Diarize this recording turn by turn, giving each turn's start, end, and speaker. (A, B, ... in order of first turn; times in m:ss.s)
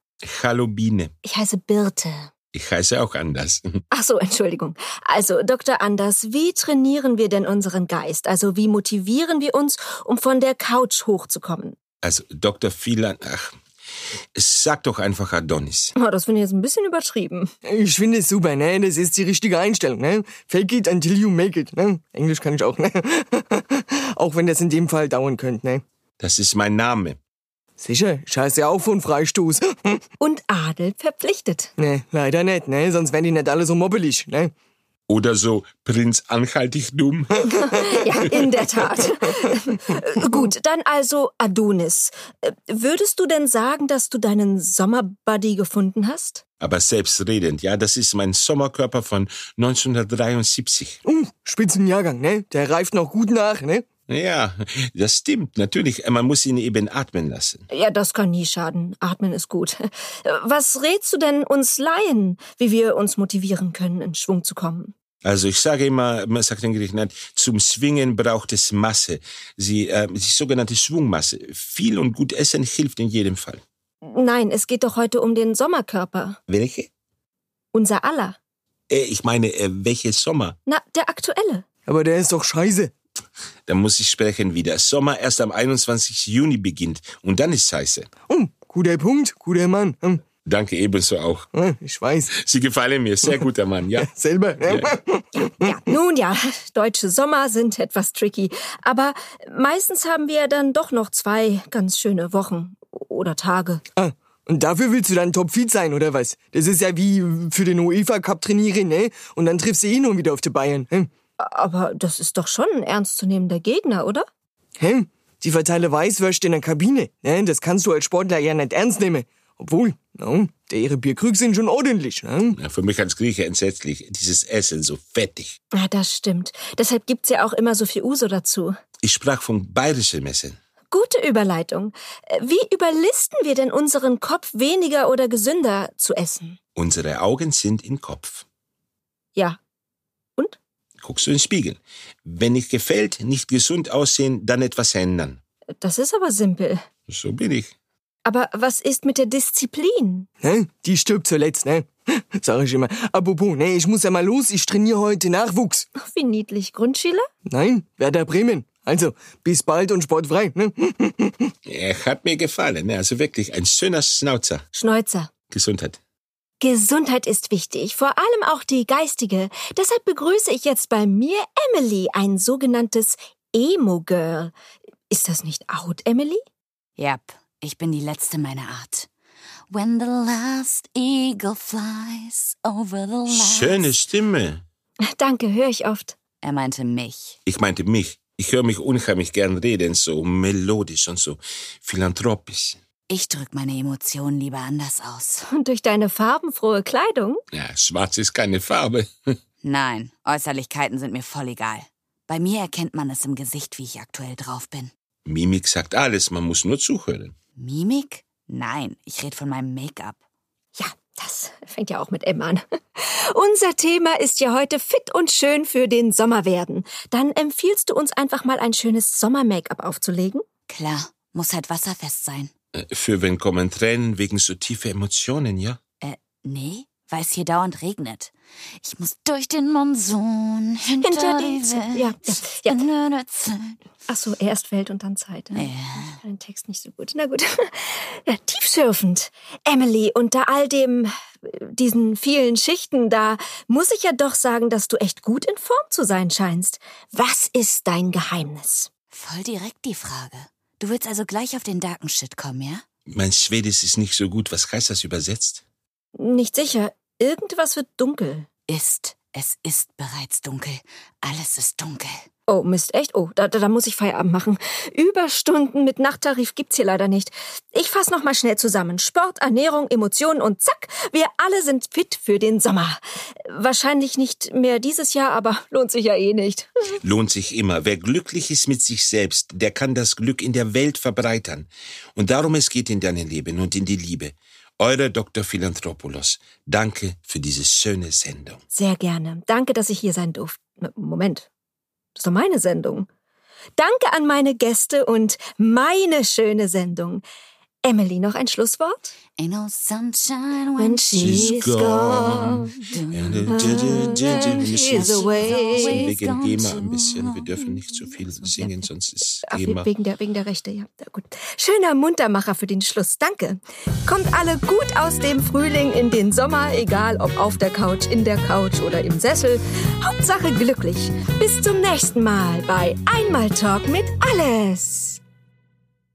0:00.2-0:01.1 A
0:01.2-0:02.3 B
0:02.5-0:03.7 A
0:03.9-0:11.8 B
0:12.0-0:13.5 A
0:14.4-0:15.9 A
0:16.0-0:17.5 B
0:17.6-0:25.8 C
0:26.2-0:27.2 A
0:27.8-0:30.0 C
0:30.2-0:31.7 B
0:31.8-0:34.5 C
0:35.1-0:37.6 A
0:37.5-0:46.4 B
0:46.6-0:51.0 A
0:51.0-0:53.9 C
0:54.1-0:57.6 A
0:57.7-1:04.9 B
1:05.2-1:13.6 A
1:14.1-1:16.4 B
1:16.5-1:16.9 A
1:17.7-1:18.4 B
1:18.9-1:20.6 A
1:20.7-1:21.6 B
1:21.9-1:22.9 C
1:23.7-1:28.1 A
1:28.3-1:30.2 C
1:30.4-1:31.5 A
1:31.6-1:32.3 C
1:32.4-1:34.1 A
1:34.0-1:35.8 C
1:34.6-1:34.9 A
1:35.4-1:43.8 B
1:44.0-1:51.1 C
1:51.4-1:54.2 B
1:54.8-2:02.6 C
2:02.6-2:05.6 A
2:05.7-2:08.8 B
2:09.0-2:10.6 A
2:10.9-2:16.6 B
2:16.8-2:18.4 A
2:21.0-2:25.4 A
2:25.8-2:26.8 B
2:27.1-2:27.7 A
2:28.2-2:30.3 B
2:30.4-2:35.9 C
2:36.0-2:37.3 B
2:37.5-2:41.5 C
2:41.7-2:44.6 A
2:44.7-2:45.3 B
2:45.5-2:46.0 A
2:46.6-2:54.5 B
2:55.1-2:56.4 B
2:57.0-2:59.1 D
2:59.7-3:04.0 D
3:03.3-3:04.6 A
3:05.1-3:06.2 B
3:06.4-3:07.4 D
3:07.4-3:12.8 A
3:13.1-3:15.4 D
3:15.5-3:17.4 B
3:17.5-3:19.4 A
3:19.6-3:24.9 D
3:25.2-3:27.4 A
3:27.6-3:30.2 D
3:30.8-3:40.4 B
3:40.7-3:42.5 D
3:42.8-3:45.8 A
3:46.0-3:48.3 D
3:48.8-3:53.8 D
3:51.0-3:52.9 B
3:54.1-4:08.9 B
3:55.5-3:56.2 D
4:09.1-4:12.8 D
4:13.1-4:15.6 A
4:16.2-4:18.5 B
4:18.7-4:22.2 D
4:22.5-4:37.0 B
4:37.0-4:48.6 A
4:48.7-4:51.5 B
4:52.2-4:53.1 B
4:53.8-4:57.2 B
4:57.8-4:59.1 B
4:59.4-5:08.8 D
5:00.8-5:02.8 B
5:01.2-5:09.9 A
5:03.5-5:06.1 B
5:09.5-5:25.2 B